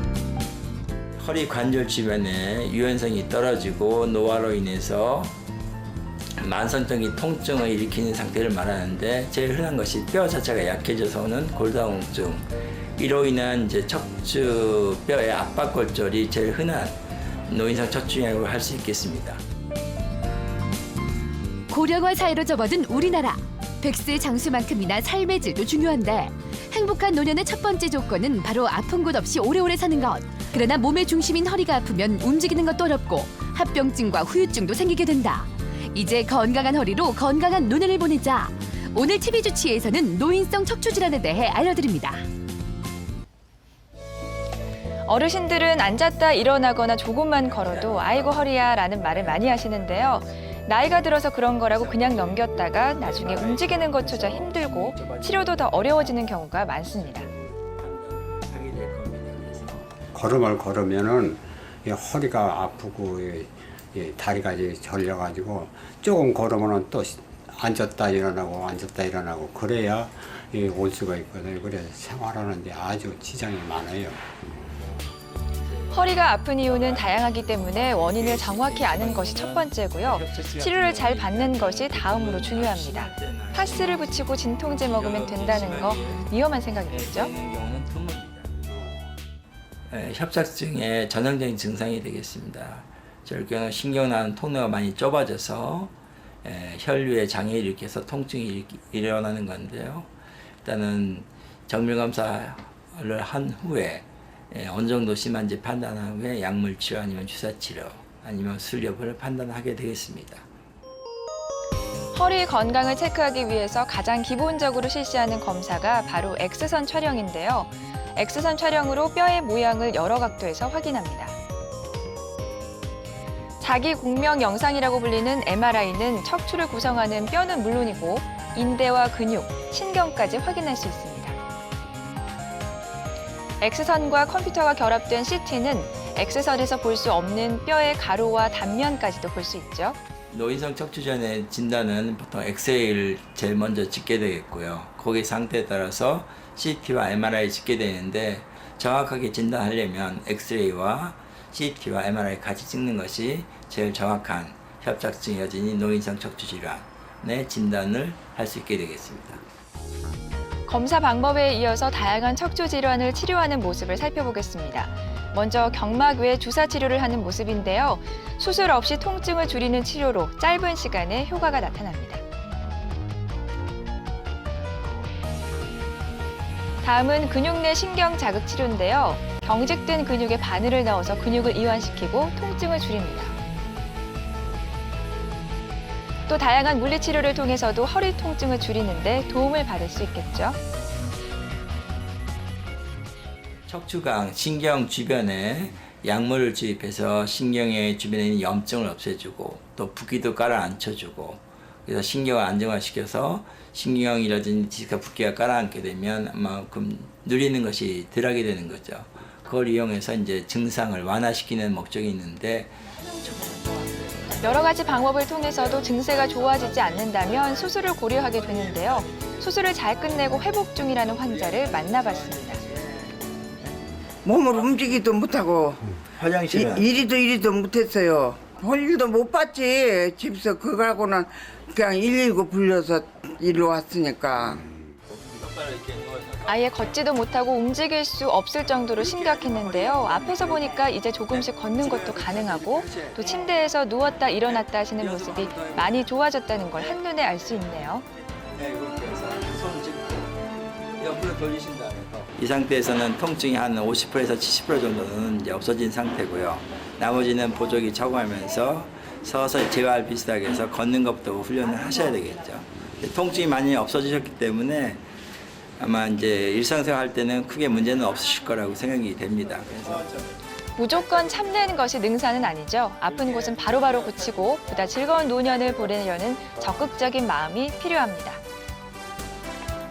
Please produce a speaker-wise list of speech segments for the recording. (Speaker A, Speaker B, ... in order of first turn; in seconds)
Speaker A: 1.2-5.3, 6.4-12.4, 13.0-16.9, 17.5-19.4, 47.4-50.5, 51.7-56.3, 56.9-59.9, 75.6-86.3, 86.8-88.5, 89.9-95.9, 96.4-100.1, 100.6-110.4, 140.3-159.4, 193.7-214.4, 215.8-217.5, 218.8-219.4, 222.6-223.1, 226.1-226.9, 235.1-236.6, 238.9-243.6, 244.5-245.9, 248.5-250.4, 251.0-265.0, 265.8-270.3, 273.3-274.3
Speaker B: 21.7-42.3
Speaker C: 45.0-57.3, 75.9-87.3, 112.1-121.3, 123.6-131.4, 133.6-140.0, 160.7-172.2, 176.8-183.3, 186.3-190.6, 214.4-222.6, 236.4-248.1, 270.8-278.4
Speaker D: 60.1-74.7, 88.6-89.1
Speaker E: 224.2-225.9, 226.5-234.6